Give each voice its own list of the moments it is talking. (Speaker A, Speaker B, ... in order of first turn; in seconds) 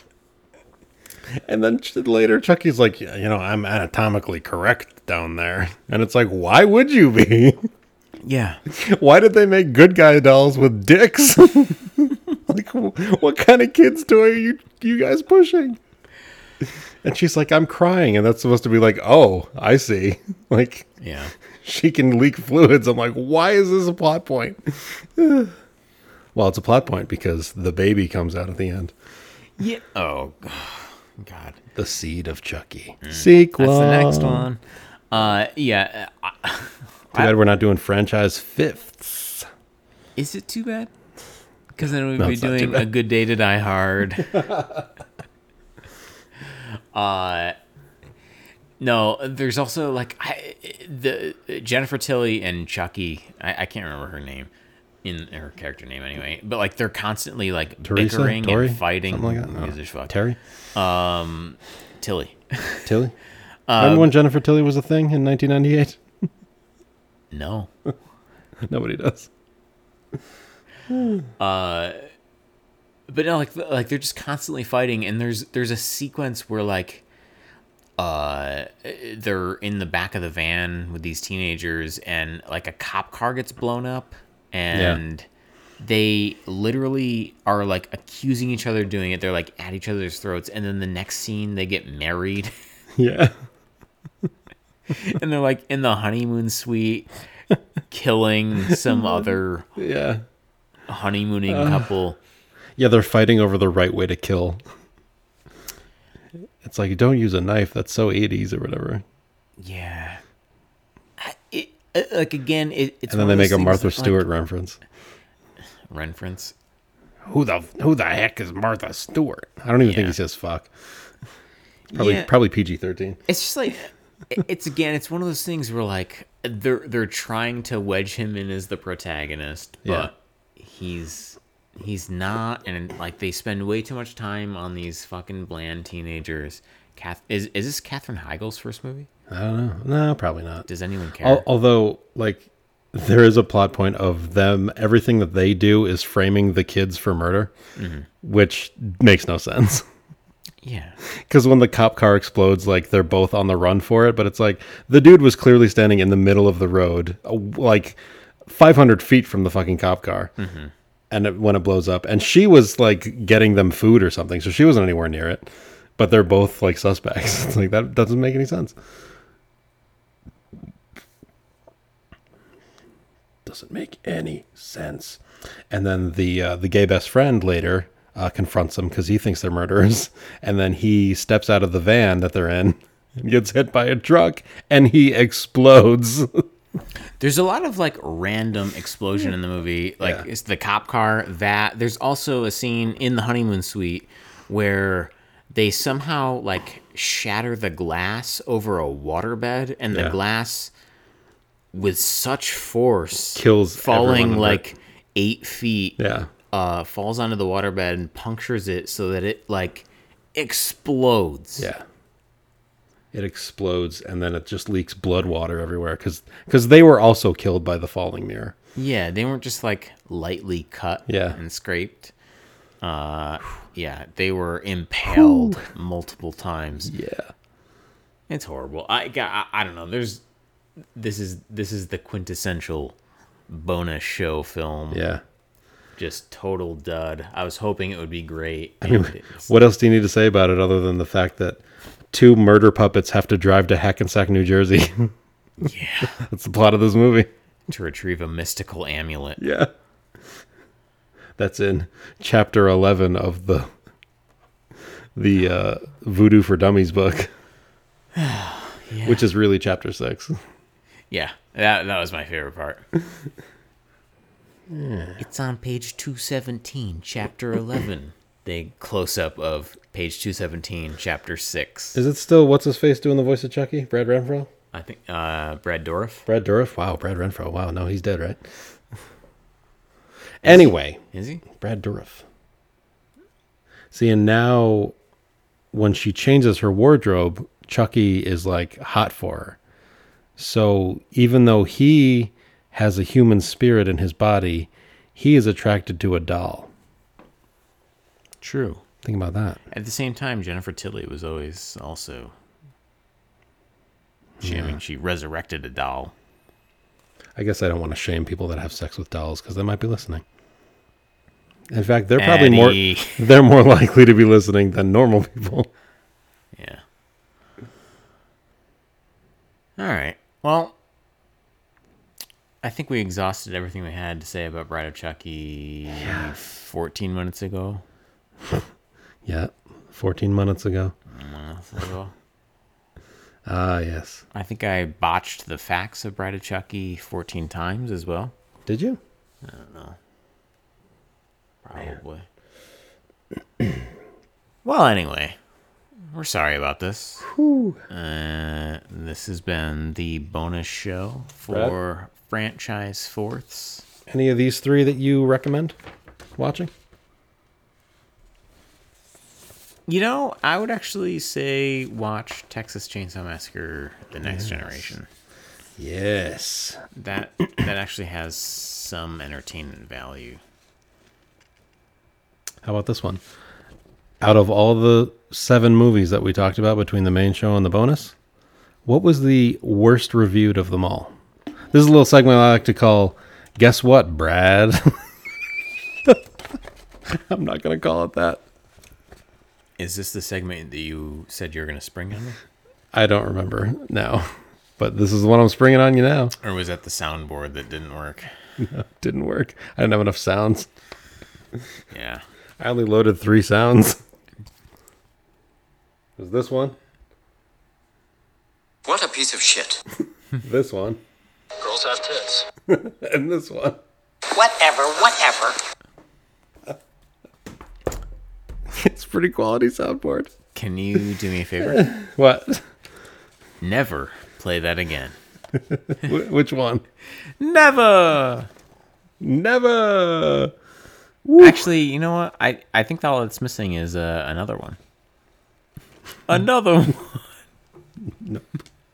Speaker A: 1.3-7.7, 8.7-15.8, 16.6-20.9, 21.6-25.5, 26.3-28.9, 31.7-34.5, 37.1-39.5, 42.2-42.9, 44.2-44.8, 57.8-60.4, 62.9-63.1, 63.8-66.0, 68.6-69.3, 70.9-71.2, 84.7-85.0, 93.0-93.3, 98.7-100.2, 101.5-101.9, 102.8-104.6, 106.6-109.0, 113.1-114.8, 117.3-120.7, 121.9-123.2, 129.8-130.1, 139.3-140.7, 141.2-147.5, 148.2-149.8, 151.2-160.3, 161.1-168.8, 173.4-186.4, 190.0-190.2, 199.9-200.2, 203.3-204.6, 206.0-206.3, 211.6-211.8, 213.1-218.5, 221.1-221.4, 225.1-225.6, 226.9-227.3, 234.9-235.2, 238.8-241.6, 242.1-245.1, 246.2-247.3, 249.4-249.7, 251.4-253.7, 255.2-257.3, 259.0-260.4, 264.7-265.2, 271.9-274.5, 276.2-278.4, 280.4-282.2, 283.9-284.9, 285.7-289.6, 290.4-296.7, 299.0-299.6, 304.4-304.8, 307.4-310.2, 311.7-315.7, 326.0-326.3, 329.2-330.9, 333.4-334.2, 338.6-339.0, 347.3-347.8, 351.5-351.8, 354.1-355.8, 356.4-356.7, 364.2-364.8, 365.8-366.8, 372.6-373.2, 374.2-378.1, 378.9-381.1, 381.7-385.0, 387.1-388.4, 392.9-396.3, 398.6-400.7, 402.6-404.0, 406.2-406.8, 410.4-411.0, 412.7-413.8, 418.7-420.3, 421.6-422.6, 425.8-426.8, 429.2-430.5, 431.2-431.6, 438.2-438.6
Speaker B: 8.2-8.6, 21.0-21.3, 29.6-31.6, 33.0-37.3, 40.2-40.9, 41.8-44.5, 46.9-47.5, 48.8-54.5, 55.0-60.1, 60.7-62.9, 63.7-64.1, 67.3-67.7, 71.4-72.0, 73.1-77.0, 78.0-85.2, 85.8-92.5, 94.9-97.1, 97.9-99.7, 100.9-102.2, 109.6-110.2, 111.2-114.3, 115.9-116.5, 119.8-120.2, 121.9-122.3, 123.3-139.1, 140.7-141.4, 147.8-148.1, 150.6-150.9, 160.4-160.7, 187.2-200.7, 201.7-206.0, 206.5-211.7, 218.8-222.1, 222.8-226.9, 228.3-230.2, 230.9-232.9, 233.5-235.0, 236.0-239.5, 245.6-246.2, 247.7-249.4, 258.1-259.2, 261.1-262.8, 265.2-272.0, 274.7-276.2, 280.4-281.4, 298.4-298.8, 299.7-302.3, 304.4-306.1, 312.2-313.3, 316.5-316.8, 319.8-320.7, 322.6-327.8, 331.1-332.1, 334.3-338.3, 339.4-340.0, 341.6-342.2, 344.6-345.4, 346.1-347.3, 347.9-353.8, 359.9-365.1, 366.9-370.4, 389.8-392.4, 396.4-398.3, 401.9-402.2, 420.5-421.9, 423.6-425.1, 427.4-428.5, 431.4-434.8, 436.3-437.2
Speaker C: 408.8-409.8, 411.6-412.5, 414.3-415.6